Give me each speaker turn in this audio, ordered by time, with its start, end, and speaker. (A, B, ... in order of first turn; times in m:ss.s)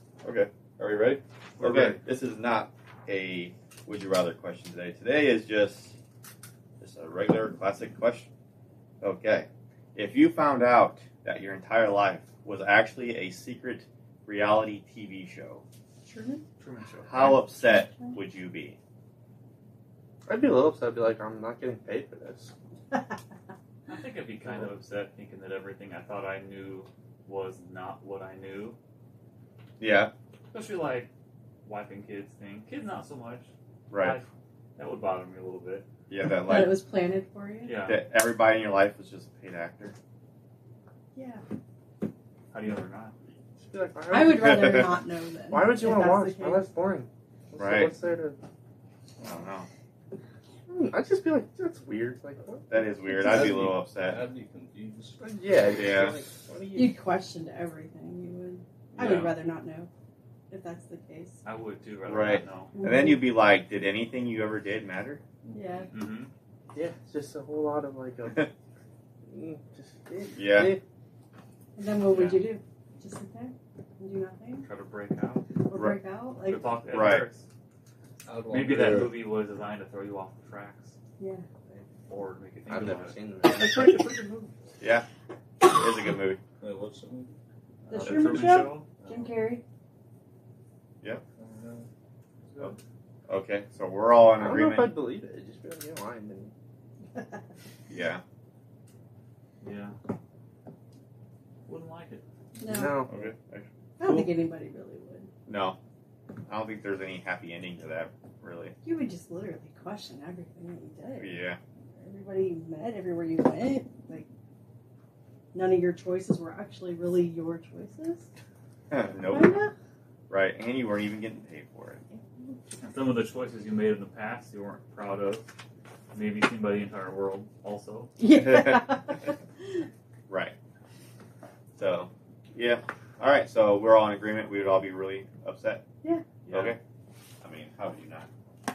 0:00.2-0:06.0 A
0:01.6-0:01.9 B
0:06.8-0:08.3 A
0:09.0-0:15.6 A
0:16.0-0:16.4 C
0:16.6-0:17.5 B
0:17.1-0:18.8 A
0:17.7-0:18.2 C
0:20.3-0:22.5 D
0:23.9-0:28.8 B
0:29.8-0:30.1 A
0:30.5-0:31.1 B
0:31.6-0:34.2 B
0:33.9-0:34.2 A
0:34.8-0:35.9 B
0:36.1-0:36.8 A
0:36.4-0:37.8 C
0:37.6-0:38.0 B
0:37.8-0:39.9 A
0:41.1-0:41.4 C
0:42.5-0:43.1 B
0:43.6-0:44.8 D
0:44.1-0:46.7 C
0:44.4-0:44.8 A
0:45.5-0:48.4 D
0:47.6-0:48.0 A
0:49.2-0:49.7 A
0:50.7-0:53.5 D
0:52.7-0:54.2 A
0:53.2-0:55.2 E
0:55.2-0:57.0 D
0:55.7-0:56.2 A
0:56.7-0:59.9 C
0:59.0-0:59.4 B
1:00.5-1:01.4 C
1:01.4-1:02.8 B
1:02.1-1:05.2 A
1:02.7-1:03.4 C
1:05.5-1:05.9 C
1:05.9-1:06.3 B
1:06.7-1:08.5 D
1:09.3-1:10.8 D
1:10.4-1:10.7 A
1:11.8-1:14.7 C
1:12.1-1:12.4 B
1:14.6-1:15.4 B
1:15.6-1:17.0 C
1:15.7-1:16.0 A
1:16.4-1:17.5 B
1:16.9-1:17.3 A
1:18.2-1:19.2 E
1:18.4-1:21.0 B
1:21.2-1:21.4 C
1:22.0-1:24.5 B
1:22.7-1:23.5 E
1:22.8-1:24.0 D
1:24.8-1:25.0 A
1:25.6-1:26.4 A
1:26.6-1:27.3 E
1:27.8-1:28.9 B
1:27.9-1:29.6 C
1:31.4-1:31.9 E
1:33.3-1:35.0 A
1:34.4-1:36.5 D
1:37.9-1:38.2 A
1:39.6-1:39.9 B
1:41.6-1:42.2 B
1:42.6-1:43.0 C
1:42.6-1:43.1 D
1:43.1-1:43.7 A
1:44.0-1:45.3 C
1:45.4-1:45.8 A
1:46.5-1:48.8 A
1:48.8-1:51.4 C
1:51.2-1:51.6 A
1:52.0-1:54.3 C
1:55.5-1:58.3 C
1:58.9-1:59.5 A
1:59.2-1:59.7 C
2:00.3-2:02.0 A
2:02.1-2:02.5 C
2:02.8-2:05.5 B
2:06.1-2:08.1 B
2:08.2-2:09.3 C
2:08.3-2:08.9 A
2:10.3-2:10.5 A
2:11.8-2:15.8 A
2:16.5-2:16.7 B
2:16.5-2:16.8 A
2:17.4-2:18.3 A